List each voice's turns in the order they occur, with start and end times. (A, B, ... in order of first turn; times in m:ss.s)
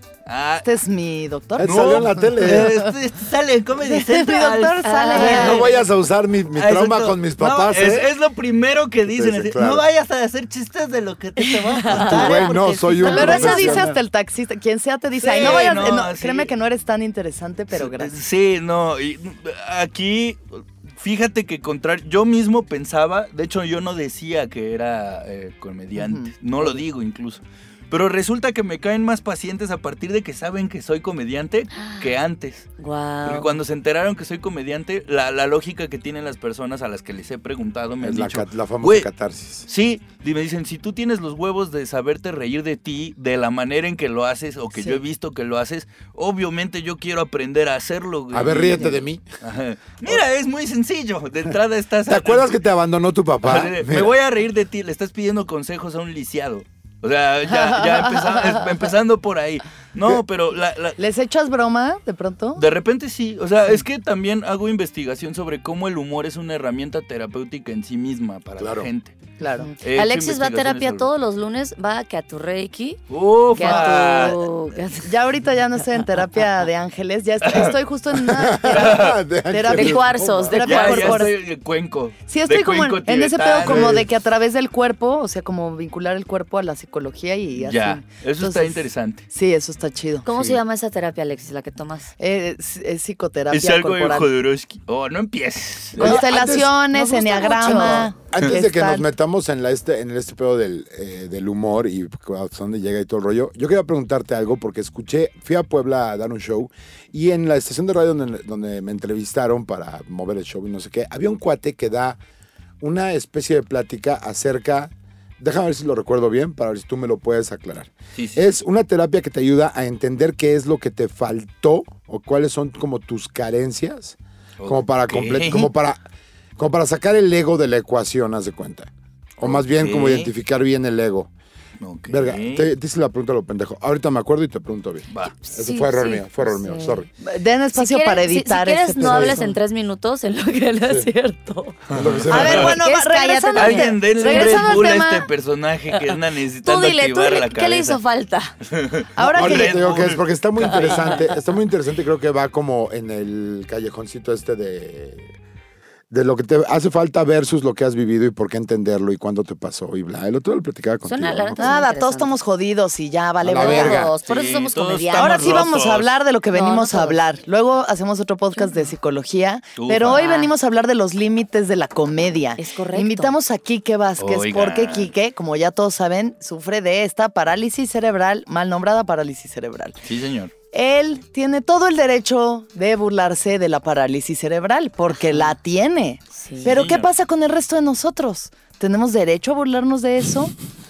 0:00.2-0:00.7 A
0:00.6-0:02.9 B
0:01.6-0:02.9 C
0:01.6-0:05.8 A
0:03.8-0:05.7 B
0:04.8-0:05.6 D
0:05.2-0:08.1 C
0:06.5-0:13.8 A
0:09.1-0:09.8 C
0:11.7-0:12.2 D
0:11.9-0:14.0 C
0:13.0-0:13.8 D
0:13.0-0:18.1 B
0:15.2-0:16.5 A
0:15.4-0:16.0 D
0:17.7-0:32.7 A
0:26.0-0:26.8 B
0:31.7-0:32.2 D
0:32.8-0:33.5 D
0:33.2-0:39.1 A
0:38.0-0:39.7 C
0:39.6-0:52.6 A
0:44.7-0:45.0 B
0:48.3-0:49.2 C
0:52.1-0:54.1 C
0:53.4-1:01.0 A
0:57.5-0:58.6 B
1:01.0-1:02.6 B
1:02.5-1:09.1 A
1:08.6-1:08.9 C
1:09.4-1:09.7 B
1:09.6-1:13.0 D
1:09.8-1:11.1 A
1:13.1-1:14.4 A
1:13.5-1:15.1 D
1:13.6-1:21.3 B
1:17.4-1:17.8 A
1:18.1-1:20.6 C
1:18.7-1:19.2 A
1:19.7-1:21.3 D
1:20.6-1:24.0 A
1:22.3-1:30.2 B
1:23.6-1:24.1 C
1:27.6-1:29.2 A
1:30.2-1:32.1 D
1:32.2-1:34.3 B
1:33.5-1:36.2 A
1:36.0-1:39.0 B
1:36.0-1:52.2 C
1:37.0-1:38.1 D
1:52.8-2:06.0 C
1:58.2-1:58.4 A
2:04.6-2:05.7 A
2:06.6-2:11.3 C
2:09.4-2:10.3 A
2:11.8-2:12.7 A
2:12.1-2:17.1 C
2:15.1-2:15.3 A
2:15.5-2:17.0 D
2:17.2-2:19.6 B
2:17.7-2:21.8 D
2:19.0-2:19.4 C
2:20.8-2:21.1 C
2:21.9-2:22.8 A
2:21.9-2:22.7 C
2:22.3-2:25.3 B
2:22.5-2:25.0 D
2:23.5-2:28.0 A
2:26.6-2:28.5 D
2:28.6-2:30.2 A
2:29.2-2:30.0 B
2:29.3-2:35.3 C
2:30.6-2:31.3 D
2:36.1-2:41.8 C
2:41.0-2:42.3 D
2:41.6-2:44.0 B
2:43.4-2:44.1 C
2:43.5-2:45.7 D
2:44.2-2:46.1 A
2:45.2-3:00.0 B
2:46.5-2:47.2 D
2:49.7-2:50.2 A
2:50.1-2:50.5 D
2:52.6-2:53.3 D
2:54.2-2:55.1 A
3:00.0-3:00.5 A
3:00.7-3:10.5 B
3:06.3-3:06.7 D
3:06.6-3:07.1 A